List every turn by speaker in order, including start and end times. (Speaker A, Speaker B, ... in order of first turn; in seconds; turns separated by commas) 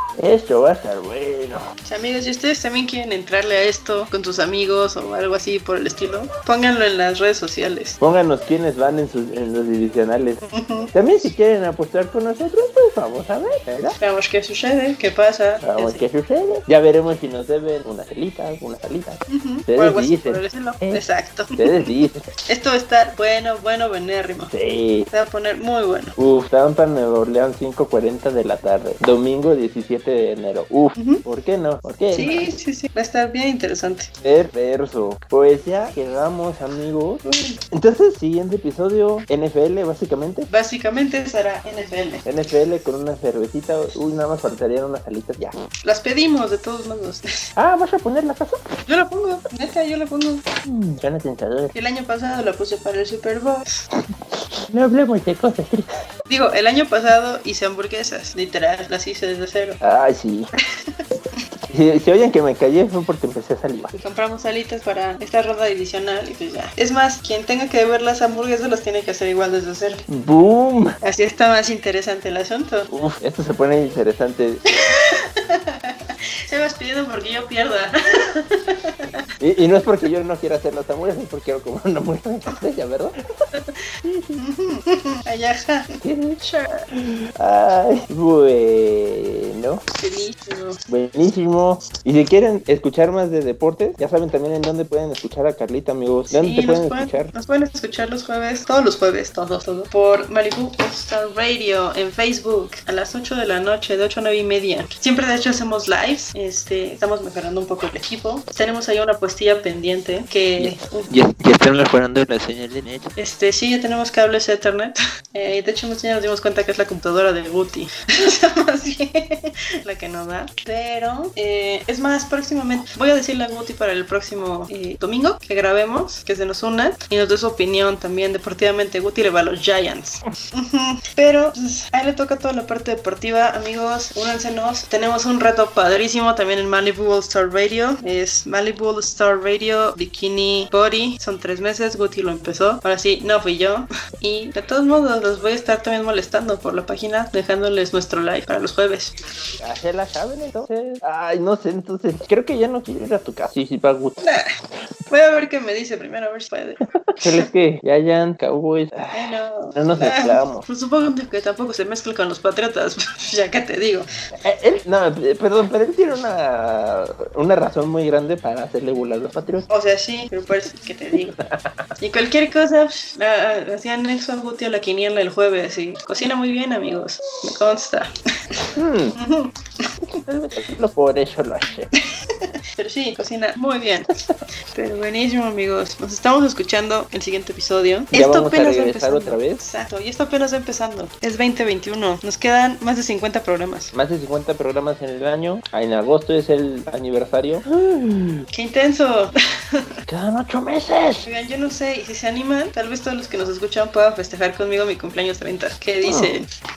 Speaker A: 0.2-1.7, Speaker B: 1.8-8.0, Speaker A: 8.0-10.4, Speaker B: 10.4-10.9, Speaker A: 10.9-13.9, Speaker B: 14.0-16.0, Speaker A: 15.6-21.0, Speaker B: 19.3-21.8, Speaker A: 21.5-22.3, Speaker B: 22.4-24.5, Speaker A: 24.5-25.1, Speaker B: 25.1-26.1, Speaker A: 26.2-32.5, Speaker B: 31.0-31.2, Speaker B: 32.1-34.1, Speaker A: 34.2-40.5, Speaker B: 37.2-37.6, Speaker B: 40.5-42.2, Speaker A: 42.2-45.5, Speaker B: 45.8-47.2, Speaker A: 47.5-48.6, Speaker B: 48.9-50.4, Speaker A: 50.6-51.7, Speaker B: 51.7-53.7, Speaker A: 54.7-55.9, Speaker B: 56.3-59.8, Speaker A: 59.8-60.5, Speaker A: 61.7-63.9, Speaker B: 63.9-70.0, Speaker A: 70.1-71.0, Speaker B: 71.0-72.9, Speaker A: 72.9-74.6, Speaker B: 74.8-79.0, Speaker A: 79.4-83.1, Speaker A: 84.0-84.4, Speaker B: 84.4-86.8, Speaker A: 86.0-86.4, Speaker A: 86.9-89.8, Speaker B: 89.9-90.8, Speaker A: 90.9-97.3, Speaker B: 96.3-111.1, Speaker A: 110.6-113.1, Speaker B: 113.2-149.1, Speaker A: 149.6-154.2, Speaker B: 155.1-157.4, Speaker A: 157.2-160.6, Speaker B: 159.1-164.1, Speaker A: 164.4-169.7, Speaker B: 169.7-171.4, Speaker A: 171.4-171.9, Speaker B: 172.0-178.1, Speaker A: 178.7-179.2, Speaker B: 179.2-179.9, Speaker A: 180.3-181.9, Speaker B: 182.8-184.1, Speaker B: 184.7-193.9, Speaker A: 188.1-189.6, Speaker A: 193.9-198.4, Speaker B: 198.5-199.8, Speaker A: 200.1-201.2, Speaker B: 201.2-206.5, Speaker A: 206.0-206.3